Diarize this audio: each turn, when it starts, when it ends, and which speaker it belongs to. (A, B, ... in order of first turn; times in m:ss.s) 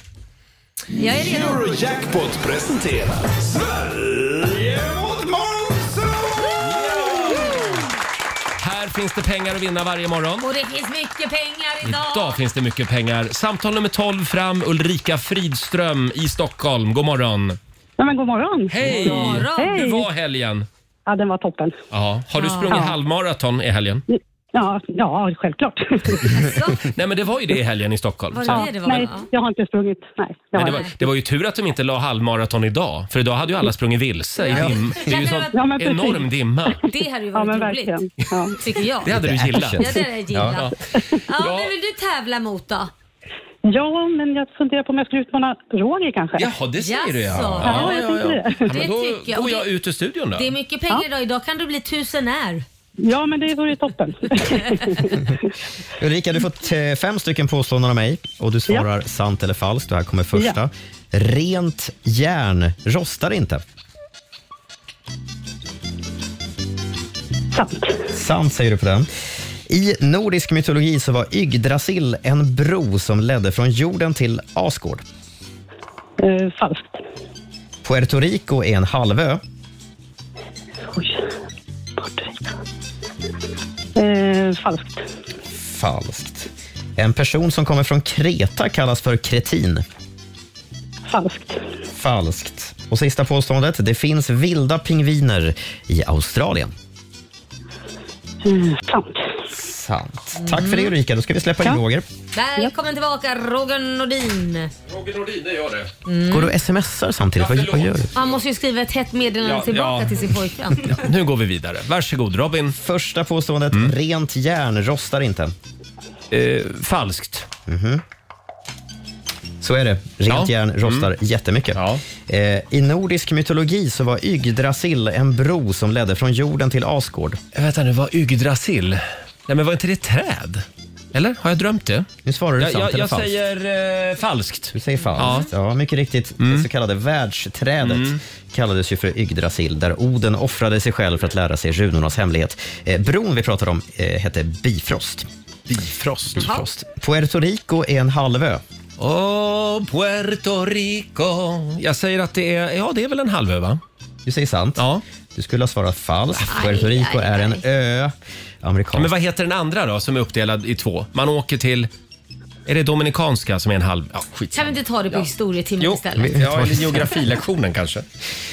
0:01.0-0:01.8 A
0:01.0-0:07.6 B
0:06.6-0:07.8 C
0:08.6-0:10.5 C
0:10.4-0:12.4 A
0:11.8-0:17.6 C
0:18.0-0:20.1 D
0:18.7-0:20.6 C
0:18.8-0:19.8 A
0:21.0-0:21.8 D
0:21.9-0:24.0 C
0:22.4-0:22.8 A
0:24.1-0:26.5 D
0:26.3-0:26.8 A
0:26.8-0:29.0 C
0:28.3-0:29.3 A
0:28.5-0:30.8 D
0:30.6-0:36.8 C
0:30.6-0:30.9 A
0:34.4-0:35.6 A
0:35.5-0:36.3 D
0:36.8-0:39.1 A
0:37.3-0:38.6 D
0:39.0-0:41.7 C
0:39.1-0:40.6 E
0:39.8-0:42.9 A
0:43.6-0:46.5 D
0:46.4-0:50.5 C
0:46.8-0:49.7 A
0:47.6-0:48.7 D
0:50.3-0:52.6 A
0:53.0-0:55.5 D
0:54.4-0:55.1 A
0:56.0-1:03.6 E
1:07.5-1:08.1 D
1:08.1-1:09.1 E
1:09.7-1:15.0 E
1:16.2-1:17.0 D
1:17.8-1:19.4 E
1:20.9-1:21.3 D
1:22.0-1:22.6 D
1:24.0-1:25.0 D
1:25.6-1:29.8 E
1:31.1-1:31.6 D
1:31.9-1:36.7 E
1:38.4-1:39.3 D
1:39.5-1:42.0 E
1:40.4-1:40.9 A
1:42.3-1:44.7 A
1:44.9-1:45.9 C
1:46.0-1:46.5 A
1:46.3-1:48.1 E
1:47.4-1:48.4 C
1:48.1-1:51.0 A
1:49.4-1:52.7 C
1:52.7-1:55.5 E
1:56.3-1:57.5 C
1:57.7-1:58.0 E
1:59.6-2:07.4 E
2:00.3-2:01.1 C
2:01.7-2:02.0 C
2:07.5-2:12.1 C
2:12.2-2:13.4 E
2:12.6-2:15.5 C
2:14.7-2:25.3 E
2:15.2-2:15.5 A
2:16.4-2:16.7 C
2:17.8-2:18.2 C
2:25.7-2:26.4 C
2:26.3-2:28.6 E
2:26.4-2:26.6 A
2:29.0-2:33.8 C
2:34.2-2:39.1 E
2:34.8-2:35.0 C
2:36.5-2:37.6 A
2:38.9-2:41.9 C
2:42.7-2:45.3 C
2:44.5-2:46.4 A
2:45.8-2:48.0 C
2:46.2-2:47.2 E